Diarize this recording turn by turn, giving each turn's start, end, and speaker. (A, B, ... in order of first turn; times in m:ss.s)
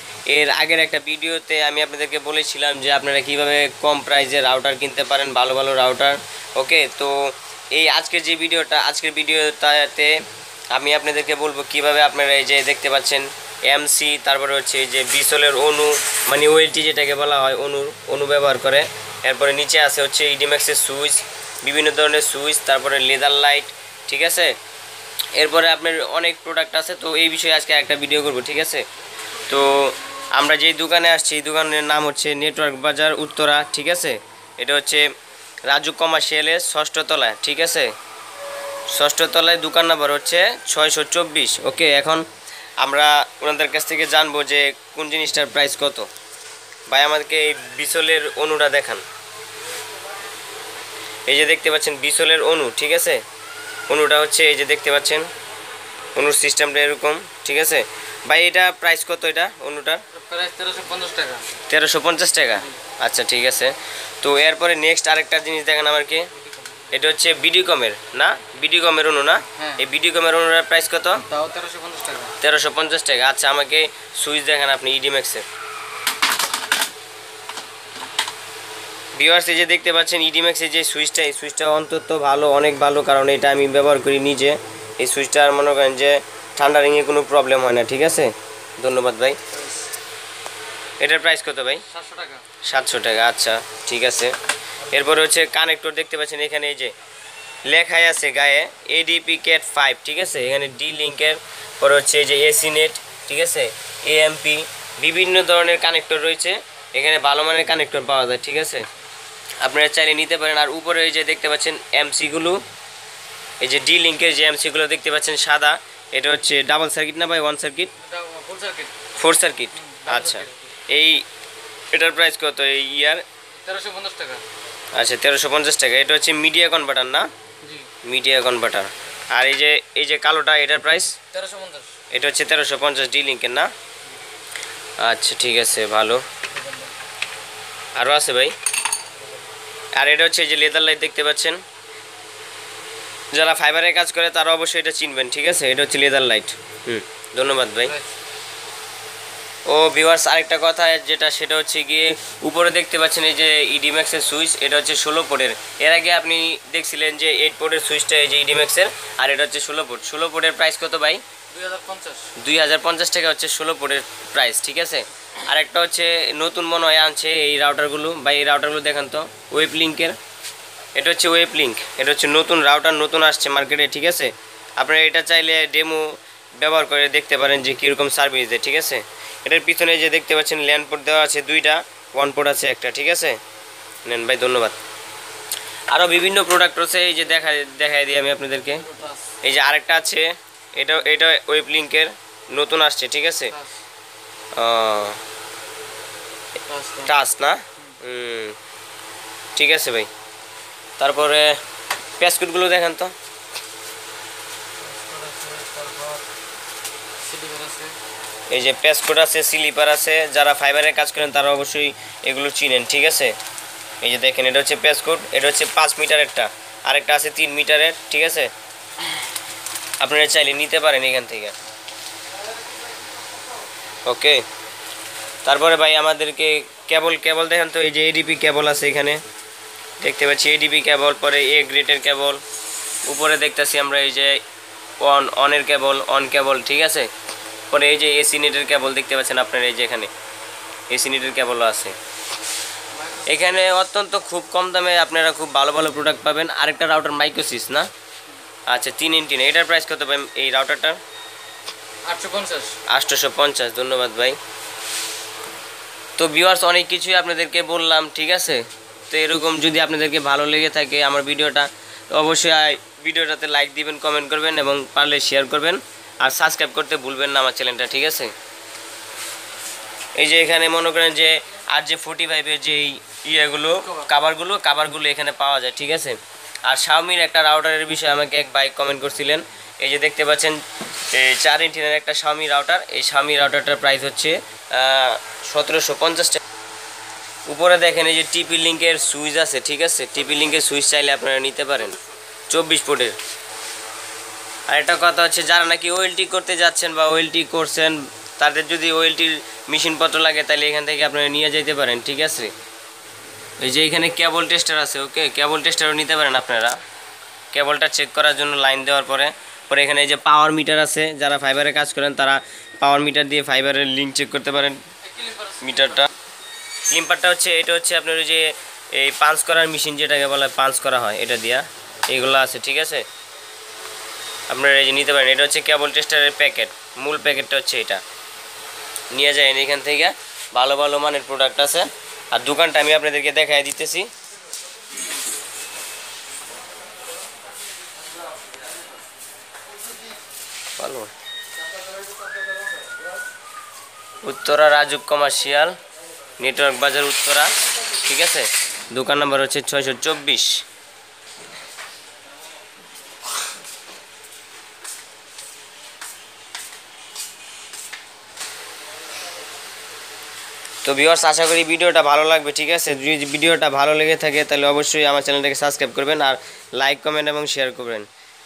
0:00.3-0:10.2 A
0:10.7-0:24.6 A
0:25.4-0:28.8 A
0:29.5-0:35.1 A
0:35.7-0:37.9 A
0:38.9-0:42.3 A
0:42.8-0:46.1 A
0:46.9-0:49.0 A
0:51.3-0:53.2 A
0:53.9-0:55.3 A
0:56.2-1:00.0 A
1:00.1-1:01.6 B
1:01.7-1:06.3 A
1:06.3-1:07.0 B
1:06.9-1:11.2 A
1:09.6-1:09.8 B
1:11.2-1:12.4 B
1:12.4-1:15.5 A
1:19.2-1:29.4 A
1:31.0-1:31.8 A
1:31.9-1:32.5 B
1:32.6-1:34.4 A
1:34.9-1:36.9 A
1:37.6-1:48.9 A
1:49.6-1:52.6 A
1:53.6-1:57.9 A
1:58.0-1:59.0 B
1:59.2-2:01.2 A
1:59.7-2:00.7 B
2:01.9-2:03.2 A
2:03.6-2:04.4 B
2:04.9-2:07.3 A
2:07.6-2:07.9 B
2:08.0-2:11.2 A
2:11.3-2:12.0 B
2:12.1-2:13.7 A
2:15.0-2:16.2 A
2:16.5-2:17.0 B
2:18.0-2:18.6 A
2:19.2-2:19.5 B
2:20.0-2:21.6 A
2:23.3-2:28.0 A
2:27.8-2:28.1 B
2:29.7-2:41.2 A
2:41.5-2:42.3 B
2:42.4-2:50.2 A
2:51.0-3:03.4 A
3:04.1-3:04.8 A
3:05.9-3:08.8 A
3:08.7-3:09.4 B
3:09.4-3:13.6 A
3:14.6-3:15.2 A
3:16.7-3:17.1 B
3:17.1-3:18.6 A
3:19.6-3:20.1 A
3:21.0-3:21.6 A
3:22.2-3:23.1 A
3:24.8-3:26.2 B
3:27.2-3:28.0 B
3:28.5-3:33.4 A
3:34.0-3:38.5 A
3:40.0-3:41.6 A
3:44.1-3:44.4 A
3:45.4-3:49.2 A
3:50.0-3:52.4 A
3:53.1-3:54.4 A
3:55.0-3:57.1 A
3:57.7-4:00.1 A
4:00.9-4:02.0 A
4:02.9-4:03.6 B
4:03.3-4:07.9 A
4:08.7-4:11.0 A
4:12.0-4:12.8 B
4:12.9-4:14.4 A
4:16.2-4:28.3 A
4:30.2-4:46.4 A
4:47.5-4:52.0 A
4:52.5-4:53.2 A
4:54.7-5:02.5 A
5:03.6-5:06.8 A
5:07.5-5:14.8 A
5:15.0-5:16.1 B
5:15.6-5:16.1 A
5:16.9-5:23.0 A
5:24.5-5:28.0 A
5:29.1-5:34.1 A
5:40.8-5:41.1 A
5:44.2-5:45.8 A
5:46.4-5:50.6 A
6:00.8-6:08.1 A